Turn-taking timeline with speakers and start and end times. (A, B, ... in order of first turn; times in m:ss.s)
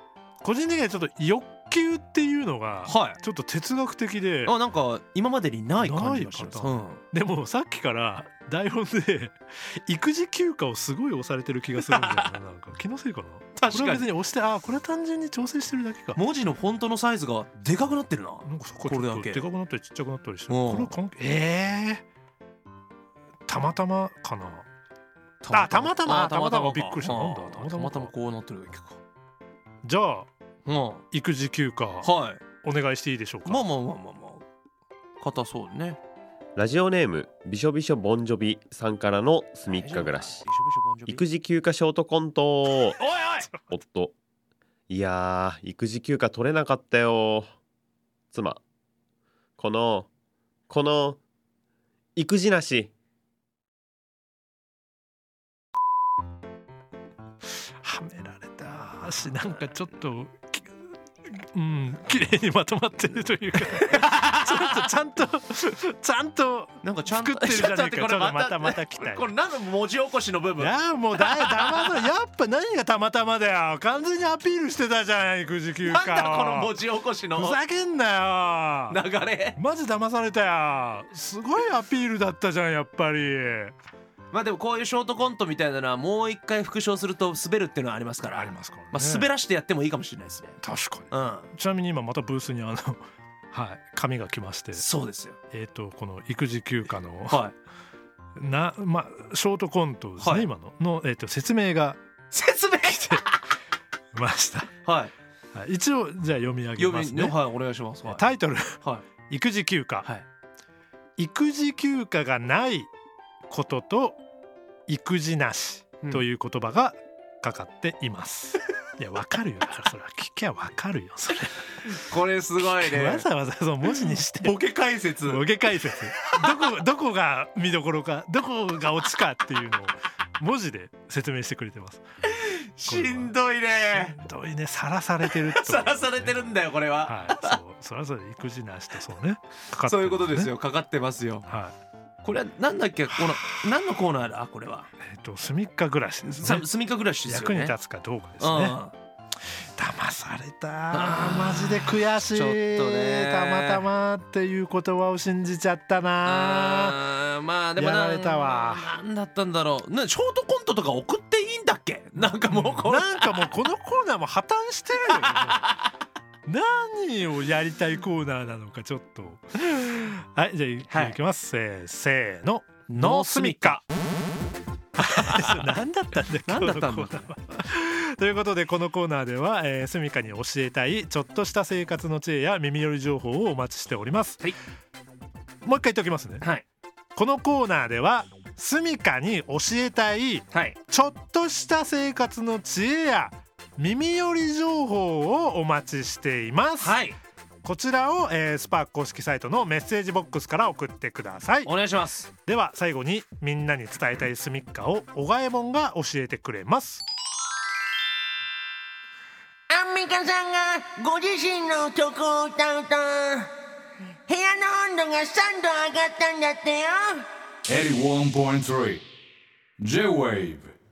0:00.4-0:04.6 A
0:02.8-0:03.2 B
0:04.4-0:07.0 B
0:05.8-0:16.2 A
0:11.8-0:12.3 B
0:13.5-0:14.0 B
0:16.2-0:19.5 B
0:18.4-0:22.0 A
0:20.5-0:20.9 B
0:23.5-0:24.6 A
0:25.4-0:29.0 B
0:25.5-0:28.1 A
0:29.8-0:30.3 A
0:30.6-0:31.0 B
0:31.1-0:32.1 A
0:32.0-0:32.4 B
0:32.6-0:33.6 A
0:33.4-0:34.4 B
0:35.2-0:36.0 B
0:36.6-0:40.4 C
0:39.7-0:41.2 B
0:41.0-0:43.0 C
0:43.0-0:43.5 B
0:43.1-0:43.6 A
0:43.7-0:44.1 C
0:44.9-0:47.5 C
0:48.3-0:48.6 C
0:49.6-0:50.1 C
0:50.7-0:51.2 C
0:52.2-0:52.9 C
0:57.8-1:00.7 A
1:01.3-1:09.3 A
1:03.9-1:04.9 B
1:06.8-1:12.0 B
1:10.6-1:16.8 A
1:15.8-1:17.6 B
1:17.3-1:19.0 A
1:18.9-1:19.6 B
1:19.5-1:23.7 A
1:24.3-1:30.6 B
1:28.2-1:29.3 A
1:30.6-1:34.8 A
1:31.1-1:31.5 B
1:34.7-1:35.4 B
1:35.5-1:37.4 A
1:37.3-1:37.5 B
1:38.4-1:42.0 A
1:40.2-1:40.5 B
1:42.3-1:43.3 B
1:42.8-1:43.2 A
1:44.1-1:44.7 A
1:44.8-1:45.1 B
1:45.5-1:47.4 A
1:46.8-1:48.3 B
1:48.0-1:50.1 A
1:51.2-1:52.9 A
1:53.5-1:54.2 A
1:54.9-2:01.8 A
2:01.8-2:03.2 B
2:02.6-2:04.6 A
2:03.8-2:05.4 B
2:05.2-2:12.0 A
2:12.2-2:14.2 B
2:12.8-2:13.4 A
2:13.9-2:20.5 A
2:15.2-2:17.5 B
2:19.8-2:21.4 B
2:21.4-2:21.7 A
2:22.2-2:24.9 B
2:23.1-2:23.8 A
2:25.0-2:26.7 A
2:26.2-2:27.8 B
2:27.2-2:28.8 A
2:28.4-2:28.9 B
2:29.8-2:37.0 A
2:30.9-2:33.8 B
2:36.2-2:43.5 B
2:37.8-2:38.9 A
2:42.2-2:45.7 A
2:45.0-2:45.8 B
2:46.4-2:53.8 A
2:50.9-2:51.2 B
2:52.9-2:53.8 B
2:55.0-3:04.5 A
2:55.3-2:55.7 B
2:56.4-2:57.2 B
3:05.6-3:06.4 A
3:07.2-3:17.0 A
3:10.5-3:10.8 B
3:16.8-3:17.2 B
3:17.6-3:21.7 A
3:21.6-3:22.3 B
3:22.4-3:27.0 A
3:29.7-3:33.5 D
3:34.3-3:37.2 D
3:37.6-3:39.0 E
3:39.8-3:40.7 E